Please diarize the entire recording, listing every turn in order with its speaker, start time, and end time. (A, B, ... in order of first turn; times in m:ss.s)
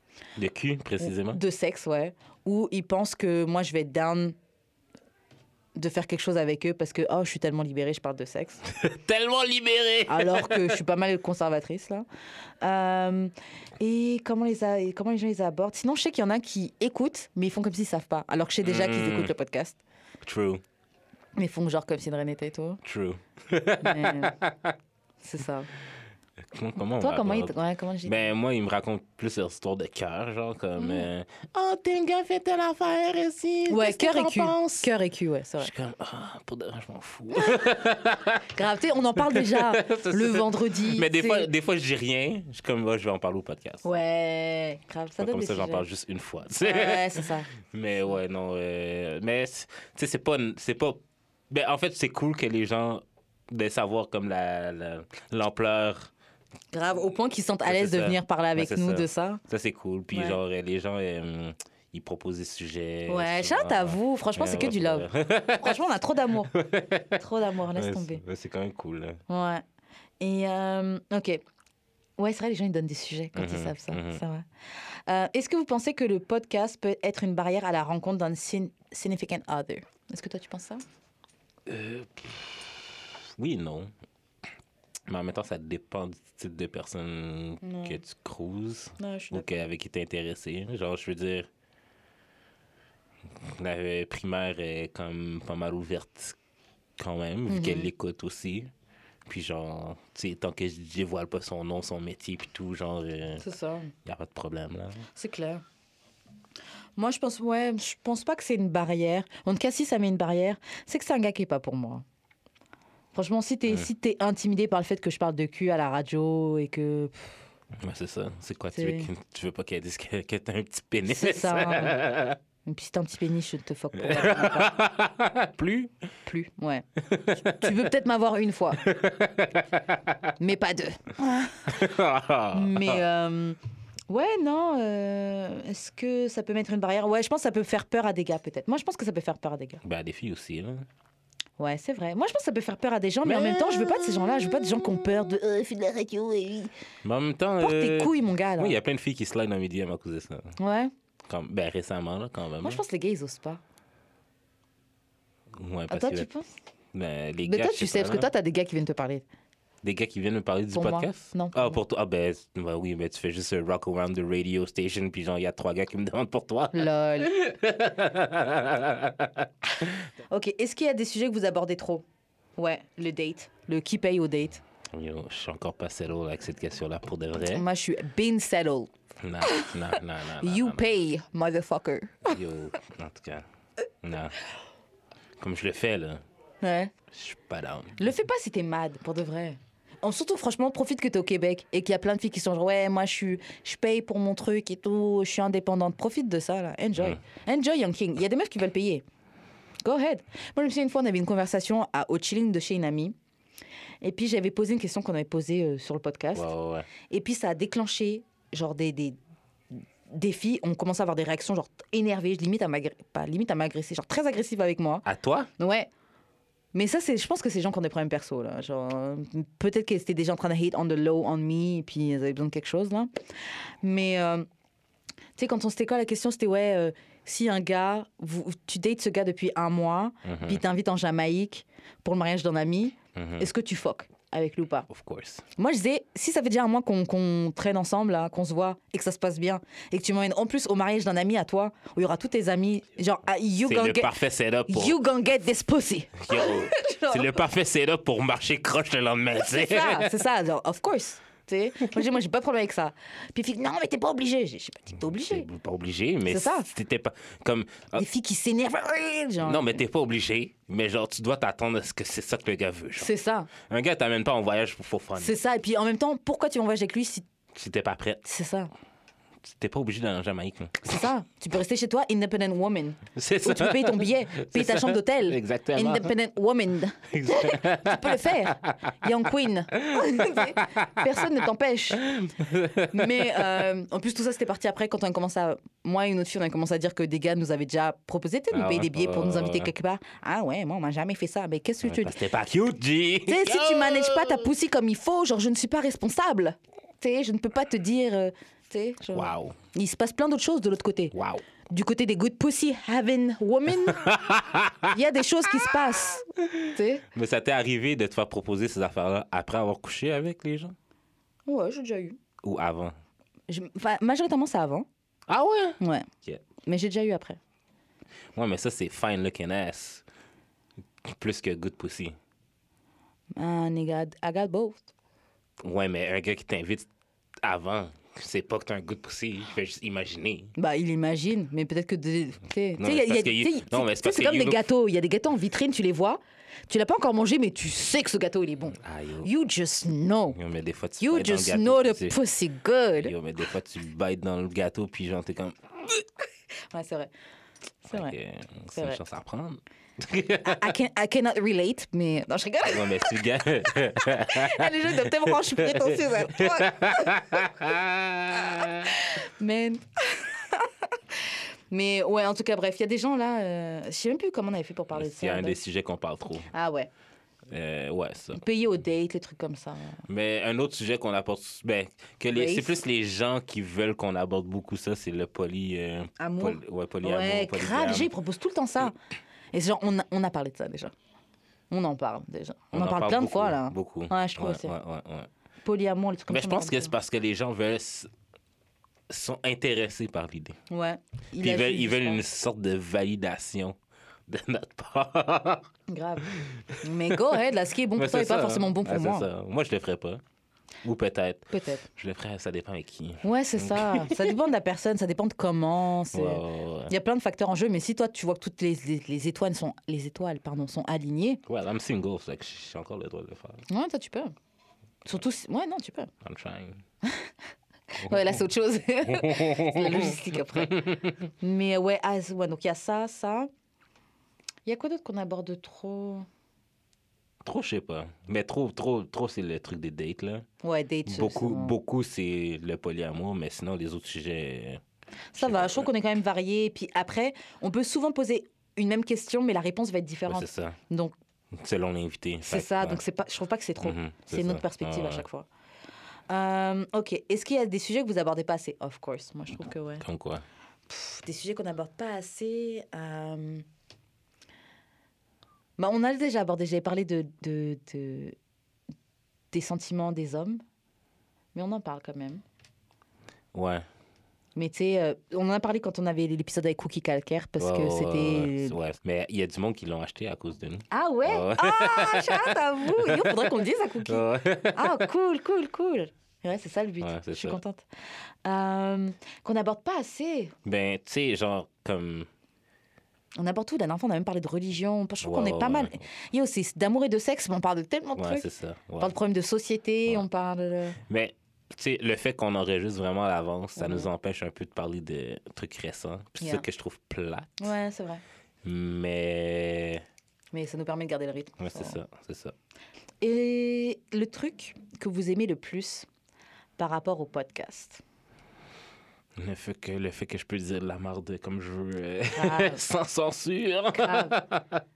0:00.4-0:01.4 A
0:01.0-0:04.3 B
0:05.8-0:08.6 B
0:08.7-0:10.7 A
0:10.1-0:12.0 B
0:12.6-0:19.8 B
0:18.6-0:19.3 A
0:20.2-0:20.6 A
0:21.4-0:22.8 B
0:22.8-0:24.8 A
0:23.8-0:24.4 B
0:25.2-0:25.7 B
0:26.4-0:34.9 A
0:27.0-0:28.3 B
0:30.8-0:31.1 B
0:33.7-0:35.7 B
0:35.6-0:38.5 A
0:38.5-0:41.5 B
0:39.2-0:43.8 A
0:43.8-0:45.9 B
0:45.2-0:56.1 A
0:46.6-0:47.5 B
0:56.7-0:59.4 B
0:57.6-1:05.8 A
1:00.1-1:00.4 B
1:03.1-1:05.1 B
1:05.6-1:06.5 B
1:06.5-1:07.2 A
1:07.2-1:08.2 B
1:07.7-1:09.2 A
1:09.3-1:09.6 B
1:10.2-1:11.4 B
1:12.2-1:14.4 B
1:13.3-1:14.2 A
1:15.1-1:20.8 B
1:21.7-1:22.8 A
1:23.4-1:23.9 A
1:25.1-1:31.5 A
1:27.6-1:28.0 B
1:29.0-1:29.5 B
1:33.4-1:36.4 A
1:37.0-1:38.7 A
1:37.5-1:37.9 B
1:39.3-1:43.4 A
1:43.4-1:43.9 B
1:44.0-1:45.1 A
1:45.1-1:45.6 B
1:47.0-1:52.0 B
1:53.1-1:57.1 B
1:57.8-2:02.4 A
1:58.7-1:59.1 B
2:01.1-2:02.0 B
2:02.6-2:04.8 B
2:04.0-2:05.9 A
2:06.3-2:08.8 B
2:07.1-2:07.8 A
2:08.8-2:10.3 A
2:10.4-2:11.8 B
2:11.7-2:13.0 A
2:12.5-2:13.6 B
2:14.1-2:19.8 B
2:19.8-2:20.9 A
2:21.6-2:26.7 B
2:23.2-2:25.3 A
2:27.0-2:30.6 A
2:27.6-2:28.8 B
2:30.6-2:30.9 B
2:31.3-2:32.8 A
2:32.6-2:33.6 B
2:35.5-2:36.3 A
2:35.9-2:36.5 B
2:36.9-2:38.3 A
2:37.4-2:39.2 B
2:39.8-2:49.9 A
2:40.7-2:41.8 B
2:46.7-2:47.3 B
2:50.3-2:52.0 B
2:52.6-2:54.6 B
2:54.9-2:57.6 A
2:57.4-2:58.9 B
2:59.2-3:00.8 A
2:59.4-3:02.4 B
3:02.3-3:03.4 A
3:04.0-3:04.3 A
3:05.4-3:06.2 A
3:06.6-3:06.9 B
3:07.1-3:08.0 A
3:08.0-3:19.0 B
3:19.8-3:23.1 B
3:24.0-3:26.5 B
3:26.3-3:26.9 A
3:27.1-3:29.2 B
3:30.1-3:35.0 B
3:35.0-3:35.5 A
3:35.6-3:35.9 B
3:36.7-3:43.1 B
3:43.8-3:44.4 B
3:45.4-3:54.9 B
3:50.2-3:50.6 A
3:53.1-3:53.5 A
3:54.9-3:55.4 A
3:55.6-4:04.1 B
4:03.6-4:05.0 A
4:04.7-4:07.4 B
4:06.2-4:10.1 A
4:09.4-4:15.5 B
4:15.1-4:18.0 A
4:16.3-4:16.7 B
4:18.0-4:19.8 B
4:19.4-4:25.4 A
4:23.0-4:23.5 B
4:25.2-4:27.3 B
4:27.5-4:28.2 A
4:28.2-4:28.7 B
4:29.4-4:31.0 A
4:30.8-4:42.1 B
4:33.1-4:36.1 A
4:37.1-4:38.8 A
4:39.8-4:41.3 A
4:41.9-4:43.7 A
4:42.9-4:52.2 B
4:48.5-4:49.7 A
4:51.8-4:54.5 A
4:53.3-5:01.1 B
4:59.1-4:59.6 A
5:01.1-5:01.4 A
5:01.7-5:04.2 B
5:03.8-5:05.0 A
5:04.9-5:07.0 B
5:05.5-5:10.7 A
5:11.5-5:12.2 B
5:12.4-5:13.0 A
5:13.5-5:14.9 B
5:15.3-5:16.4 A
5:15.8-5:16.1 B
5:16.6-5:17.4 B
5:18.3-5:20.0 A
5:21.0-5:22.2 A
5:23.4-5:24.9 B
5:25.6-5:26.9 A
5:27.4-5:30.5 A
5:30.6-5:40.4 B
5:32.8-5:34.6 A
5:38.7-5:39.3 A
5:40.3-5:42.2 A
5:41.0-5:43.1 B
5:43.0-5:45.6 A
5:46.7-5:47.1 B
5:47.9-5:48.2 B
5:47.9-5:50.7 A
5:48.7-5:49.0 B
5:50.4-5:53.1 B
5:52.7-5:59.0 A
5:54.0-5:57.2 B
5:58.5-6:05.6 B
6:04.9-6:06.5 A
6:06.5-6:06.9 B
6:07.5-6:08.4 A
6:08.3-6:10.0 B
6:10.1-6:18.1 A
6:12.3-6:12.8 B
6:16.2-6:19.0 B
6:19.5-6:20.9 B
6:21.7-6:24.7 B
6:22.7-6:25.3 A
6:25.6-6:26.9 B
6:26.3-6:28.1 A
6:29.1-6:30.6 A
6:30.7-6:32.2 B
6:31.4-6:33.8 A
6:34.3-6:35.7 A
6:35.9-6:39.3 B
6:36.2-6:37.4 A
6:38.0-6:40.2 A
6:40.8-6:44.4 A
6:41.5-6:41.9 B
6:43.2-6:51.4 B
6:46.1-6:46.9 A
6:51.4-6:53.6 A
6:53.7-6:54.3 B
6:55.0-6:56.1 B
6:56.2-6:56.8 A
6:57.0-6:57.3 B
6:57.9-7:03.5 B
6:58.0-6:58.4 A
6:59.0-7:01.2 A
7:04.7-7:06.3 B
7:07.4-7:10.4 A
7:10.6-7:11.7 B
7:11.1-7:14.8 A
7:15.3-7:21.1 B
7:15.4-7:15.9 A
7:20.3-7:20.8 A
7:21.5-7:23.0 A
7:22.4-7:25.5 B
7:23.8-7:25.2 A
7:26.3-7:30.0 B
7:30.0-7:30.4 A
7:30.9-7:33.6 B
7:35.8-7:38.3 B
7:39.5-7:40.6 B
7:41.5-7:42.4 B
7:43.5-7:43.8 A
7:44.6-7:48.8 B
7:47.6-7:55.0 A
7:50.9-7:57.8 B
7:57.0-7:57.6 A
7:58.4-8:00.5 B
8:00.6-8:02.3 A
8:03.4-8:08.5 B
8:05.2-8:06.0 A
8:08.2-8:09.1 A
8:09.0-8:11.0 B
8:11.1-8:17.7 A
8:13.8-8:14.1 B
8:16.4-8:16.6 B
8:17.6-8:18.2 B
8:18.6-8:20.0 A
8:20.5-8:22.0 B
8:21.6-8:22.5 A
8:23.2-8:26.1 B
8:26.8-8:28.0 B
8:29.4-8:34.8 A
8:32.3-8:32.8 B
8:33.9-8:34.4 B